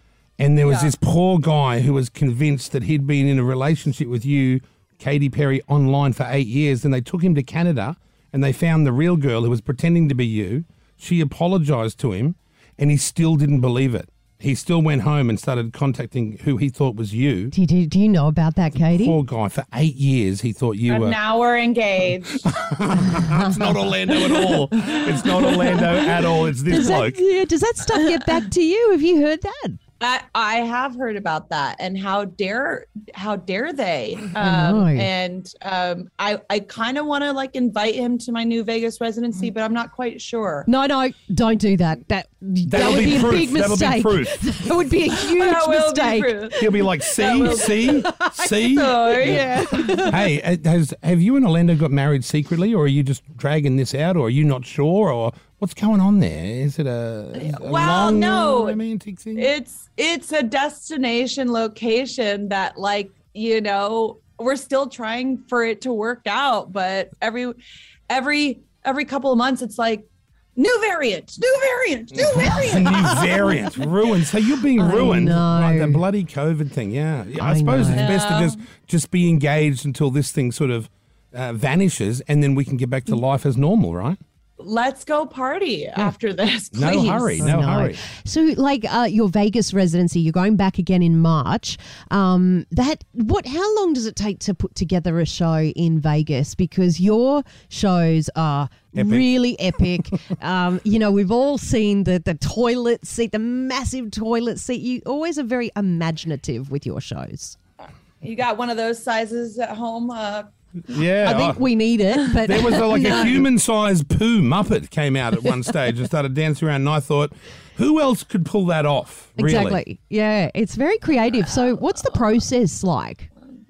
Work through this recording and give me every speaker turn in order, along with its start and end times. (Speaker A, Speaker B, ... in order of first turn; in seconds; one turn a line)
Speaker A: 0.4-17.5
Speaker B: 0.6-0.9
Speaker C: 17.5-19.2
Speaker A: 18.7-21.2
Speaker B: 20.9-22.5
Speaker A: 22.4-27.2
Speaker C: 23.2-23.7
Speaker B: 24.1-26.1
Speaker C: 26.7-29.8
Speaker B: 30.0-40.7
Speaker C: 34.4-35.1
Speaker C: 40.7-50.2
Speaker A: 42.6-44.4
Speaker B: 42.8-43.1
Speaker B: 45.3-50.1
Speaker A: 46.6-59.5
Speaker B: 57.4-58.8
Speaker B: 59.4-70.0
Speaker B: 70.6-73.5
Speaker A: 72.2-84.2
Speaker C: 74.8-76.0
Speaker C: 77.4-78.1
Speaker B: 77.9-78.7
Speaker B: 84.6-87.5
Speaker A: 86.7-88.0
Speaker C: 86.8-107.5
Speaker A: 98.9-99.8
Speaker B: 108.2-110.5
Speaker A: 110.9-111.6
Speaker C: 111.2-113.4
Speaker A: 112.4-119.8
Speaker C: 119.4-123.3